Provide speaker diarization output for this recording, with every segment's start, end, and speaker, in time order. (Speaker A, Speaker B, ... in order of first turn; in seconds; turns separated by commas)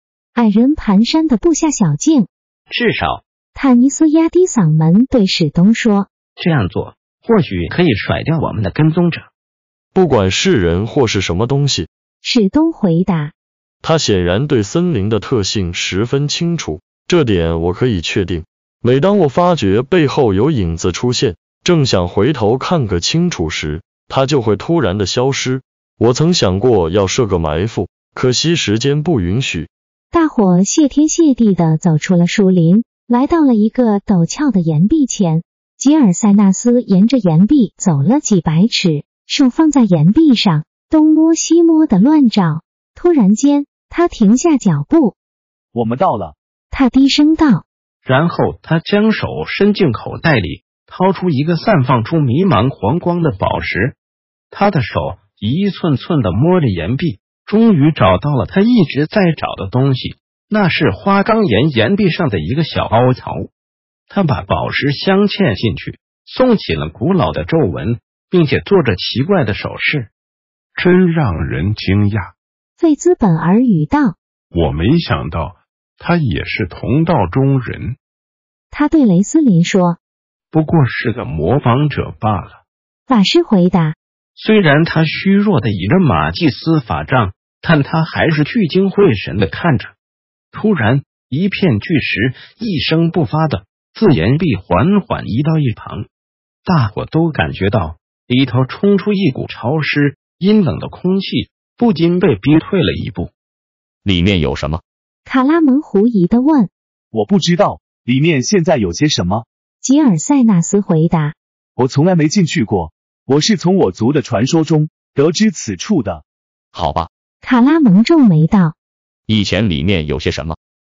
Speaker A: 0.3-2.3, Speaker B: 2.7-3.2, Speaker A: 3.5-6.1, Speaker B: 6.4-9.3, Speaker C: 9.9-11.9, Speaker A: 12.2-13.3, Speaker C: 13.8-29.7, Speaker A: 30.1-45.2, Speaker D: 45.7-46.4, Speaker A: 46.7-47.6, Speaker B: 48.0-54.0, Speaker B: 54.5-63.5, Speaker B: 64.1-70.1, Speaker E: 70.8-72.3, Speaker A: 72.8-74.2, Speaker E: 74.5-78.0, Speaker A: 78.7-80.0, Speaker B: 80.6-81.9, Speaker E: 81.3-82.6, Speaker A: 83.1-84.0, Speaker B: 84.4-89.9, Speaker B: 90.5-96.1, Speaker B: 96.7-103.3, Speaker F: 104.0-104.8, Speaker A: 105.2-106.7, Speaker D: 107.1-109.5, Speaker A: 109.8-111.4, Speaker D: 111.8-116.2, Speaker F: 116.7-117.1, Speaker A: 117.4-118.8, Speaker F: 119.3-120.6